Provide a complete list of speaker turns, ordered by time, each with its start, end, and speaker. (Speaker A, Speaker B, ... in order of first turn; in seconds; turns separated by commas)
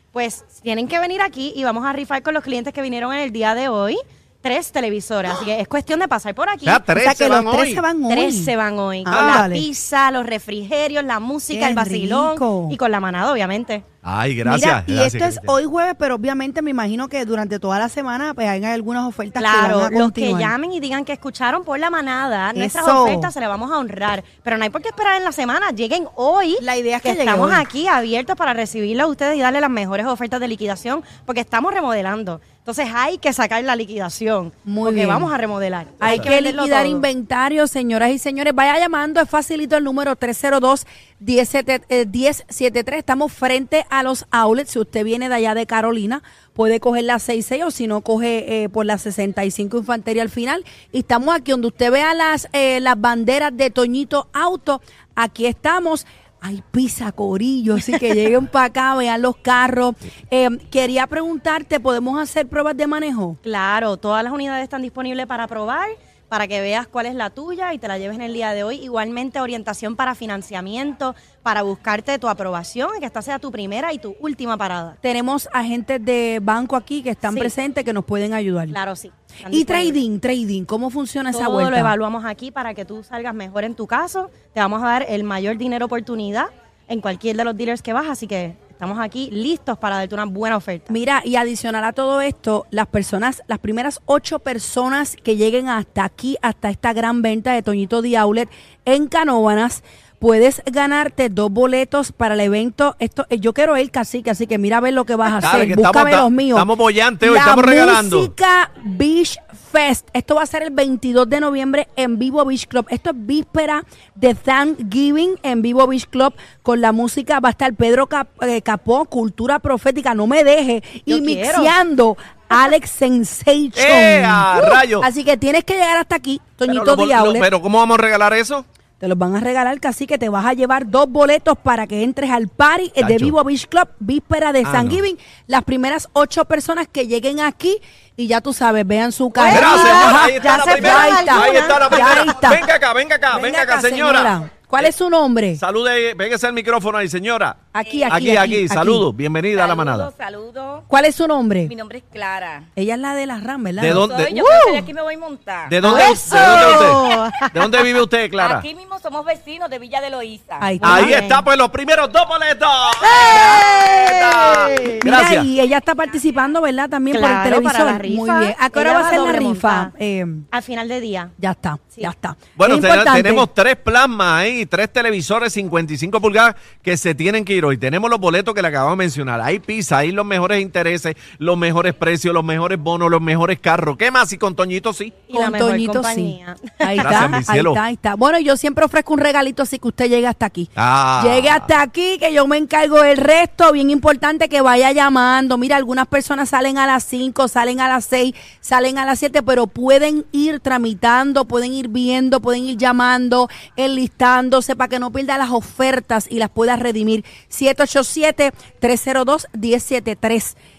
Speaker A: 0.1-6.8, Speaker B: 6.7-7.8, Speaker C: 7.0-8.5, Speaker A: 8.1-13.8, Speaker C: 9.0-9.7, Speaker B: 9.1-9.4, Speaker C: 11.5-12.8, Speaker B: 14.0-15.6, Speaker C: 14.4-20.5, Speaker A: 19.4-37.1, Speaker C: 22.6-23.3, Speaker C: 26.6-27.6, Speaker C: 34.6-35.3, Speaker C: 36.0-63.4, Speaker A: 63.4-75.0, Speaker C: 75.0-78.8, Speaker A: 77.3-77.5, Speaker A: 78.7-80.0, Speaker C: 79.5-81.9, Speaker A: 81.3-90.9, Speaker C: 90.9-106.7, Speaker B: 105.4-108.3, Speaker C: 107.2-127.5, Speaker A: 121.1-121.8, Speaker B: 123.8-125.1, Speaker B: 126.7-128.7, Speaker C: 129.0-142.7, Speaker B: 133.0-133.4, Speaker B: 134.6-135.0, Speaker A: 139.4-142.1, Speaker B: 139.4-144.9, Speaker D: 139.6-142.0, Speaker C: 143.3-145.6, Speaker B: 145.6-150.1, Speaker C: 147.7-149.1, Speaker D: 147.8-148.3, Speaker D: 149.6-150.9, Speaker C: 150.9-151.7, Speaker D: 151.7-152.7, Speaker C: 152.8-154.1, Speaker B: 153.8-154.5, Speaker D: 153.9-157.0, Speaker B: 155.7-158.7, Speaker C: 155.8-157.2, Speaker A: 156.2-157.8, Speaker D: 158.4-160.8, Speaker C: 160.6-161.2, Speaker B: 160.8-165.5, Speaker A: 160.8-161.5, Speaker A: 163.0-165.1, Speaker C: 165.0-170.5, Speaker A: 167.1-169.9, Speaker A: 170.5-171.3, Speaker C: 171.4-173.5, Speaker B: 172.6-185.2, Speaker A: 185.3-187.4, Speaker C: 185.3-210.6, Speaker B: 187.0-187.8, Speaker B: 190.8-191.7